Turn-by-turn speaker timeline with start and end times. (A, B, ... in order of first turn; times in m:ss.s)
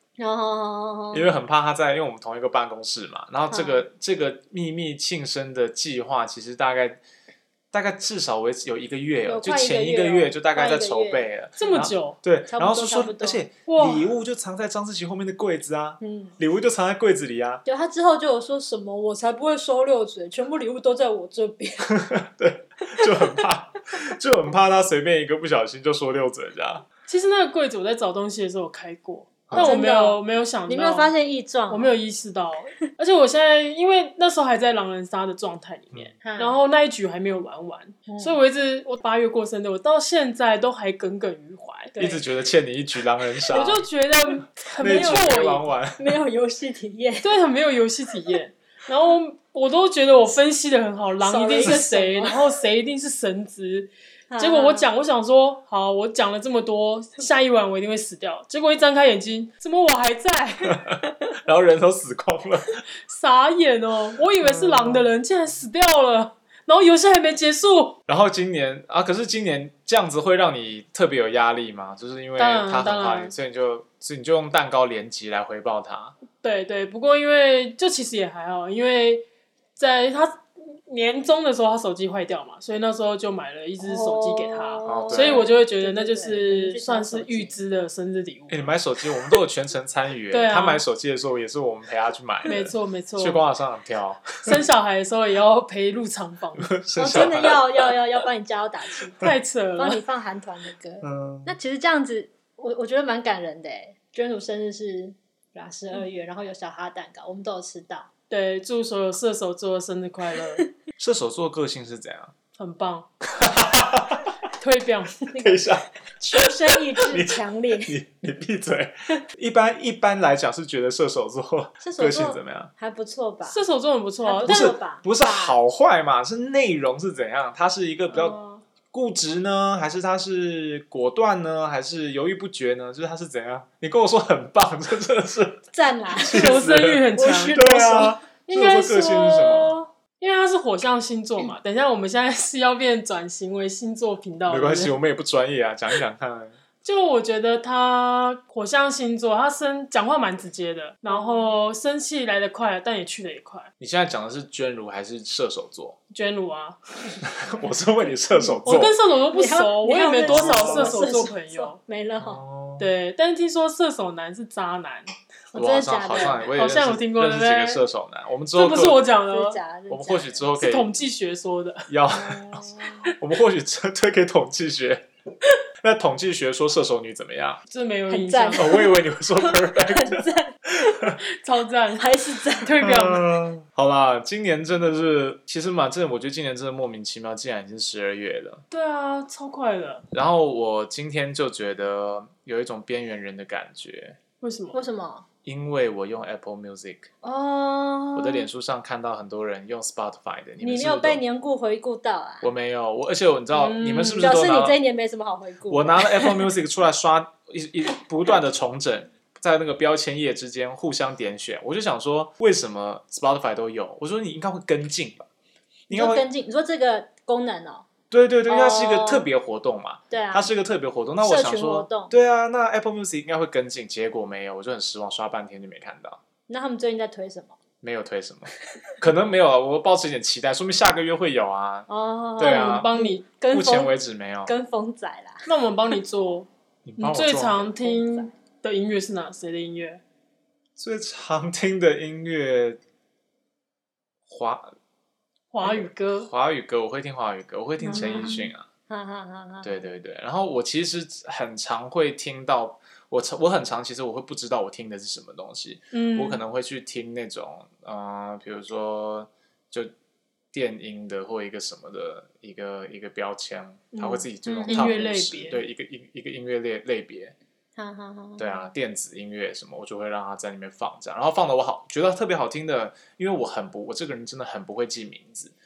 0:00.2-0:01.3 A
0:01.1-0:07.0 B
0:03.5-0:03.8 A
0:07.7-0:17.6 B
0:09.2-0:11.8 A
0:11.6-0:12.2 C
0:12.5-0:13.4 A
0:13.7-0:14.1 C
0:16.0-0:16.4 A
0:17.6-0:22.0 A
0:21.9-0:26.8 B
0:27.0-0:31.1 C
0:29.5-0:29.8 B
0:29.6-0:31.9 A
0:31.7-0:42.2 C
0:36.2-0:36.6 A
0:38.1-0:38.4 A
0:42.0-0:43.8 B
0:43.5-0:45.6 C
0:44.8-0:46.2 B
0:44.8-0:45.3 A
0:46.0-0:47.3 A
0:47.2-1:00.8 C
0:51.2-0:52.4 A
0:54.3-0:54.9 A
1:00.7-1:02.8 B
1:03.1-1:08.0 C
1:04.4-1:05.1 B
1:08.1-1:16.2 B
1:12.4-1:13.3 C
1:16.4-1:19.2 C
1:19.8-1:28.7 C
1:23.8-1:27.6 A
1:24.8-1:25.5 B
1:28.5-1:34.6 B
1:30.3-1:30.8 C
1:32.5-1:33.4 C
1:34.4-1:36.7 C
1:36.6-1:38.0 B
1:37.0-1:39.2 A
1:39.2-1:40.0 C
1:39.8-1:48.1 A
1:41.0-1:41.5 B
1:48.3-1:50.6 C
1:51.0-1:52.3 B
1:52.6-1:53.1 C
1:53.3-1:54.3 B
1:54.6-1:55.3 C
1:55.3-1:57.9 A
1:55.4-2:02.7 B
2:01.8-2:03.6 A
2:03.4-2:04.7 C
2:04.2-2:05.6 A
2:04.4-2:08.4 B
2:08.1-2:08.6 C
2:08.9-2:15.6 B
2:15.7-2:16.6 A
2:16.2-2:19.6 C
2:16.3-2:19.7 B
2:17.2-2:19.9 A
2:20.2-2:24.9 C
2:24.5-2:26.6 B
2:26.8-2:33.7 C
2:31.1-2:31.6 A
2:33.8-2:36.0 B
2:36.1-2:37.2 C
2:37.3-2:39.0 B
2:38.6-2:41.8 C
2:39.3-2:42.4 A
2:40.2-2:41.0 B
2:42.2-2:42.9 B
2:42.8-2:45.1 C
2:45.5-2:46.5 A
2:45.5-2:49.0 B
2:46.1-2:47.8 C
2:48.5-2:49.6 C
2:49.3-2:50.4 A
2:49.9-2:50.9 B
2:50.6-2:51.9 C
2:51.9-2:52.6 B
2:52.1-2:53.1 A
2:53.1-2:55.0 B
2:55.8-2:57.6 B
2:57.7-2:58.8 C
2:58.1-3:00.5 A
2:58.5-3:01.2 B
3:01.4-3:03.3 C
3:02.0-3:02.7 A
3:02.8-3:08.6 B
3:08.7-3:10.0 C
3:10.1-3:14.2 B
3:14.4-3:14.8 C
3:14.7-3:15.2 A
3:15.4-3:17.1 B
3:17.2-3:18.5 A
3:18.1-3:21.2 B
3:20.6-3:22.5 A
3:22.4-3:24.8 B
3:23.5-3:24.3 C
3:24.2-3:26.5 A
3:25.7-3:35.3 B
3:35.9-3:36.3 B
3:35.9-3:37.9 A
3:38.1-3:46.2 B
3:38.5-3:39.3 A
3:40.1-3:40.5 A
3:41.2-3:42.1 A
3:46.5-3:47.6 A
3:47.8-3:52.9 B
3:51.9-3:53.9 A
3:52.4-3:53.2 C
3:53.5-3:54.5 B
3:54.4-3:55.5 A
3:55.4-4:00.0 C
3:56.8-3:57.7 B
3:57.7-3:58.3 A
4:00.8-4:02.8 B
4:04.3-4:04.7 B
4:05.5-4:06.3 C
4:05.6-4:08.7 B
4:07.8-4:09.8 A
4:07.9-4:08.4 C
4:09.6-4:19.9 B
4:15.9-4:16.4 C
4:20.5-4:27.3 B
4:23.9-4:25.6 C
4:24.4-4:24.8 A
4:27.8-4:28.7 A
4:28.4-4:35.5 B